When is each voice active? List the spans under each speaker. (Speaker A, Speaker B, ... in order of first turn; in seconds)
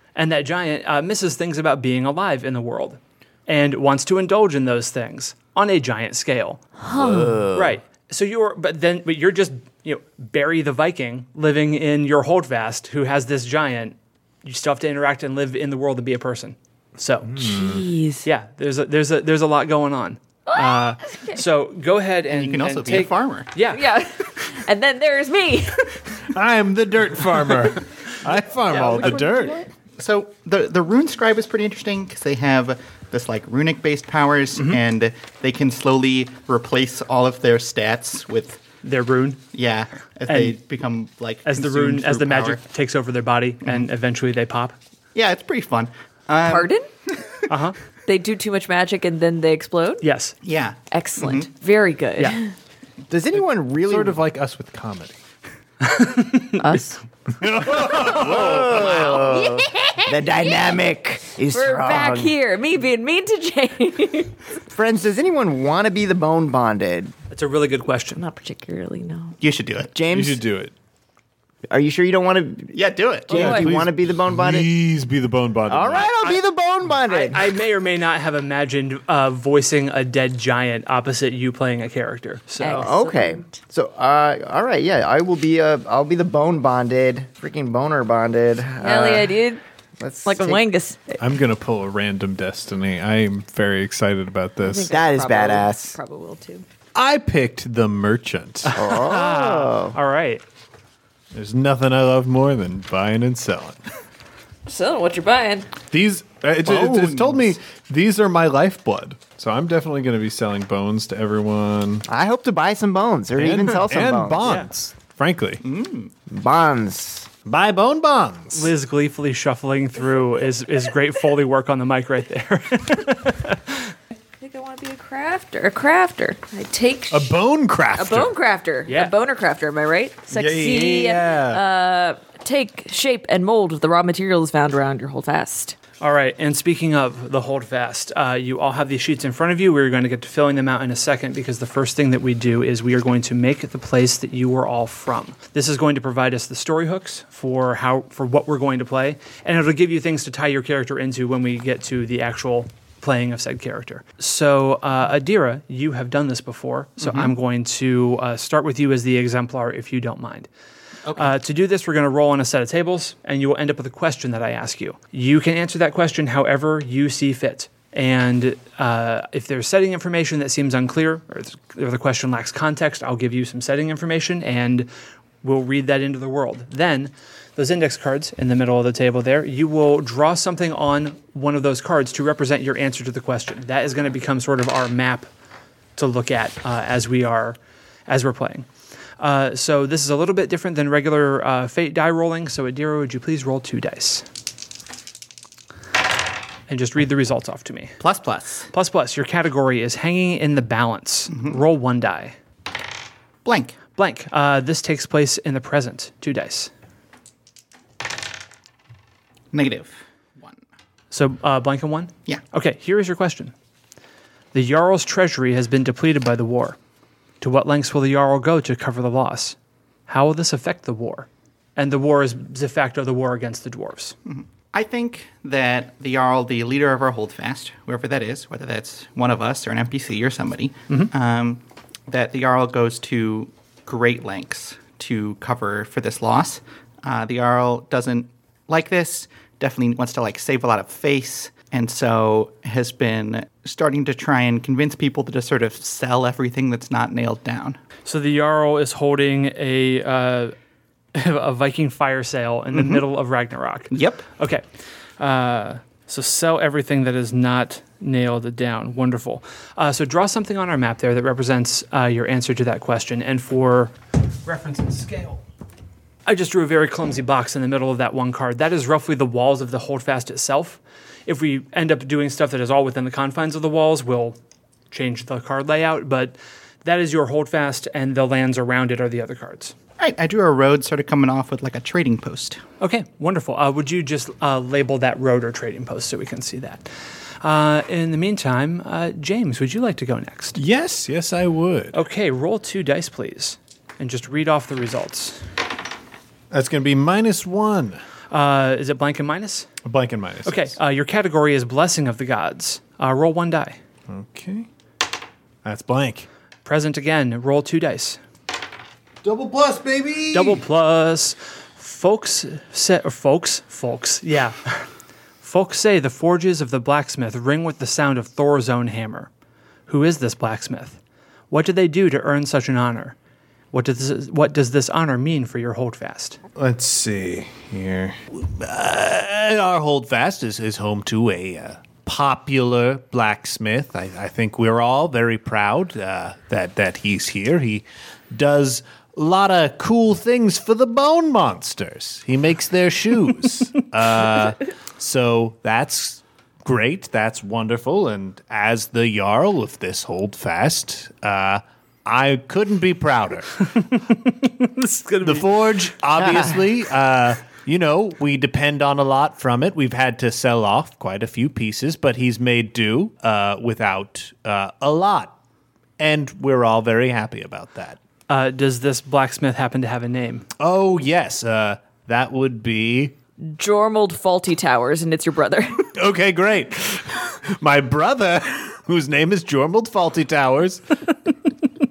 Speaker A: 0.1-6.6, 7.5-17.3, 18.2-23.8, 38.8-39.4, 40.3-40.6, 41.4-44.7, 47.5-47.7, 50.0-50.4, 55.8-56.7, 67.3-68.2, 77.1-82.9, 98.7-100.4, 118.5-123.9, 128.9-129.1, 136.0-160.5, 161.1-174.9, 175.4-185.3, 185.9-188.7, 189.2-194.2, 196.7-198.0, 198.7-202.3, 204.0-206.7, 211.1-213.5, 214.5-216.8, 217.4-224.2, 248.0-250.5, 251.1-254.6, 255.2-265.4, 266.2-274.4, 274.9-279.7, 282.8-290.6, 291.9-295.4, 298.3-299.7, 300.4-303.8, 306.6-308.2, 310.3-314.9, 315.4-319.3, 319.9-321.0, 321.5-323.1, 323.7-326.4, 353.7-355.5, 368.3-370.4
Speaker B: 6.8-7.5, 17.4-18.2, 20.5-21.4, 23.7-26.3, 28.7-29.7, 46.4-46.9, 48.0-50.0, 50.9-52.5, 56.6-56.9, 57.9-58.6, 59.1-60.6, 61.5-64.5, 68.2-69.4, 73.3-73.7, 82.6-83.6, 88.8-89.6, 90.2-91.0, 94.6-96.6, 104.7-105.7, 124.4-127.4, 128.0-135.8, 373.5-375.9
Speaker C: 6.9-7.8, 53.1-54.2, 57.8-62.3, 64.7-67.1, 69.9-70.4, 71.7-72.8, 73.3-74.7, 75.7-77.5, 82.8-89.4, 90.0-90.6, 94.9-96.0, 98.7-99.9, 112.0-114.4, 116.3-117.3, 356.2-356.5
Speaker D: 17.3-17.9, 26.3-29.6, 53.8-55.2, 57.4-59.0, 70.1-70.7, 73.3-76.1, 91.2-94.9, 96.9-98.7, 101.3-103.8, 105.9-112.0, 113.3-115.6, 117.5-118.7, 127.1-128.3, 130.3-131.6, 290.6-291.9, 296.5-298.0, 299.8-300.7, 304.1-304.7, 305.6-306.3, 309.2-310.6, 326.6-353.6, 355.2-365.3, 366.0-368.0, 370.6-373.1, 375.9-380.9
Speaker E: 22.3-23.5, 30.0-38.6, 39.5-42.6, 45.1-47.4, 50.4-51.5, 69.4-69.9, 72.7-73.4, 106.6-107.4, 115.6-116.1, 157.0-157.3, 161.1-161.3, 198.0-198.7, 201.3-201.6, 203.4-203.8, 209.5-210.6, 224.2-247.8, 252.7-253.0, 253.9-254.2, 280.0-282.6